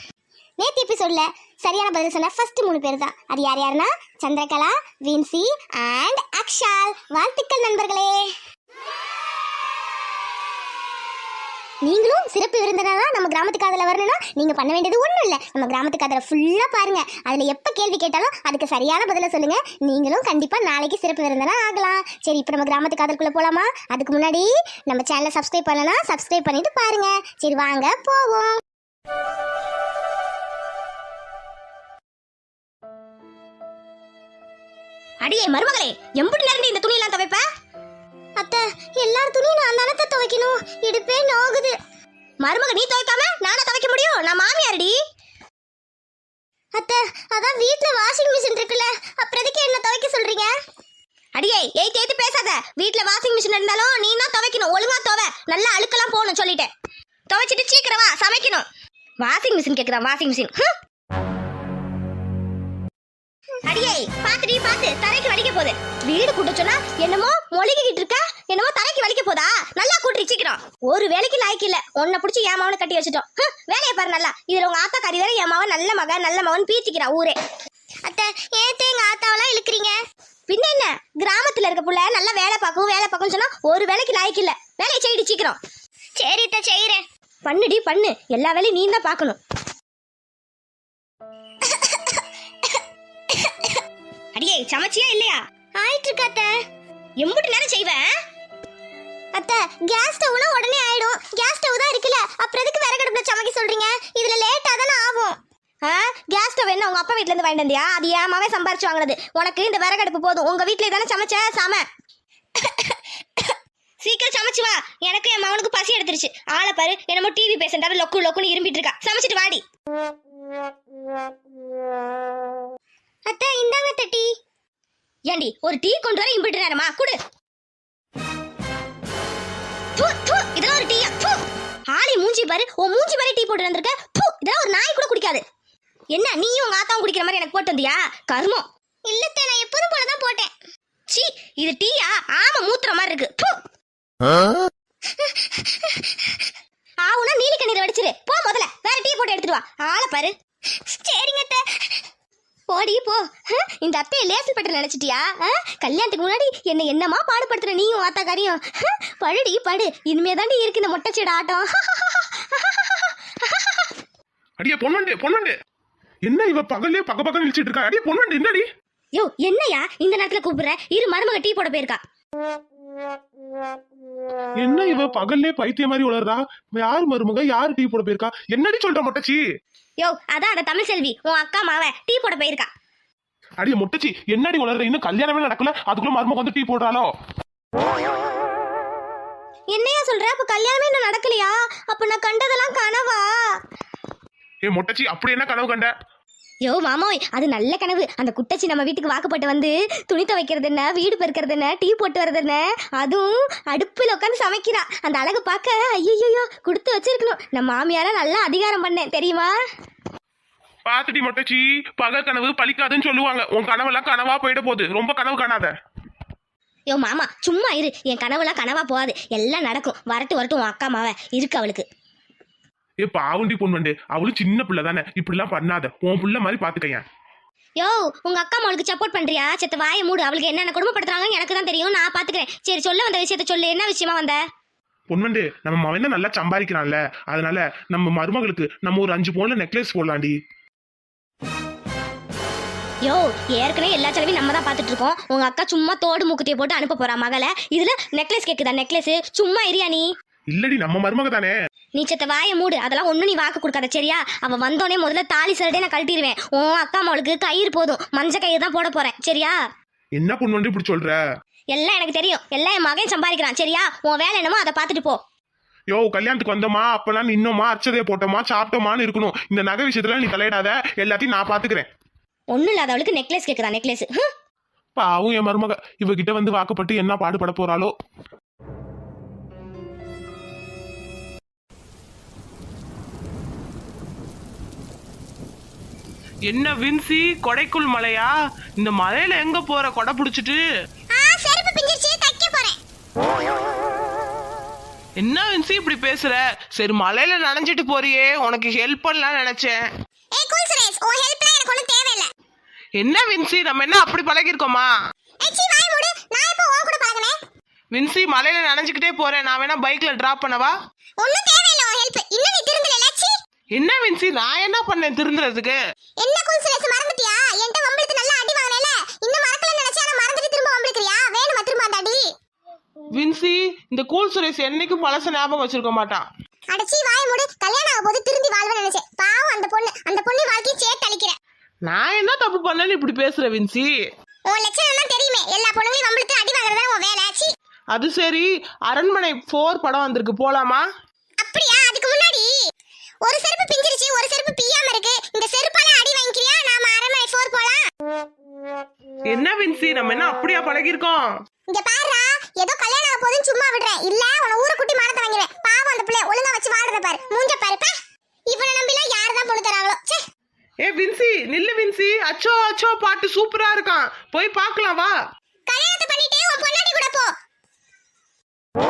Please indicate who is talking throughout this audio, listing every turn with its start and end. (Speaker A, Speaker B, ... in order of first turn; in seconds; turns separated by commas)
Speaker A: 0.6-8.3, Speaker A: 11.8-28.6, Speaker B: 35.2-37.5, Speaker A: 38.4-41.8, Speaker B: 42.4-45.0, Speaker A: 46.7-50.5, Speaker B: 51.4-56.7, Speaker B: 57.3-58.6, Speaker B: 59.2-60.6, Speaker A: 63.7-64.3, Speaker B: 64.3-77.3, Speaker A: 78.1-80.0, Speaker B: 80.5-85.6, Speaker A: 86.2-87.0, Speaker B: 87.5-89.4, Speaker B: 94.4-95.4, Speaker A: 95.8-96.5, Speaker B: 97.2-98.1, Speaker A: 99.3-105.4, Speaker B: 105.9-111.8, Speaker B: 114.0-119.6, Speaker A: 123.3-124.3, Speaker B: 125.3-127.2, Speaker B: 130.0-131.4, Speaker B: 131.9-135.4, Speaker B: 136.2-138.6, Speaker A: 136.2-136.5, Speaker A: 139.1-140.5, Speaker B: 141.1-143.6, Speaker B: 147.0-150.3, Speaker A: 150.9-151.6, Speaker B: 152.7-161.7, Speaker C: 164.6-165.6, Speaker C: 166.2-168.7, Speaker B: 169.2-172.0, Speaker C: 174.6-179.4, Speaker B: 180.0-182.6, Speaker A: 182.3-182.7, Speaker C: 183.6-187.1, Speaker B: 189.8-193.2, Speaker A: 189.9-191.0, Speaker A: 192.3-193.1, Speaker C: 194.7-195.9, Speaker B: 196.7-209.5, Speaker A: 198.8-199.7, Speaker A: 201.1-201.3, Speaker A: 207.0-209.3, Speaker C: 210.9-215.7, Speaker B: 216.9-221.8, Speaker C: 223.0-227.0, Speaker B: 227.9-234.4, Speaker A: 232.6-233.5, Speaker C: 235.1-240.4, Speaker B: 243.1-250.1, Speaker C: 250.5-251.6, Speaker B: 252.0-259.5, Speaker C: 260.2-261.2, Speaker B: 261.7-265.2, Speaker C: 265.9-271.9, Speaker B: 272.5-274.2, Speaker C: 275.0-277.9, Speaker D: 286.5-290.6, Speaker A: 291.1-292.8, Speaker D: 295.2-299.8, Speaker A: 300.3-302.3, Speaker D: 303.0-304.9, Speaker A: 305.4-307.4, Speaker D: 307.9-310.8, Speaker A: 311.2-313.3, Speaker D: 313.8-315.8, Speaker A: 316.2-322.3, Speaker D: 323.2-326.2, Speaker A: 326.7-331.4, Speaker D: 331.9-333.9, Speaker A: 334.5-337.5, Speaker D: 337.9-340.9, Speaker A: 341.4-342.5, Speaker A: 343.3-347.9, Speaker D: 349.3-351.3, Speaker A: 351.7-357.9, Speaker A: 358.5-360.2, Speaker D: 360.8-365.1, Speaker A: 365.7-367.3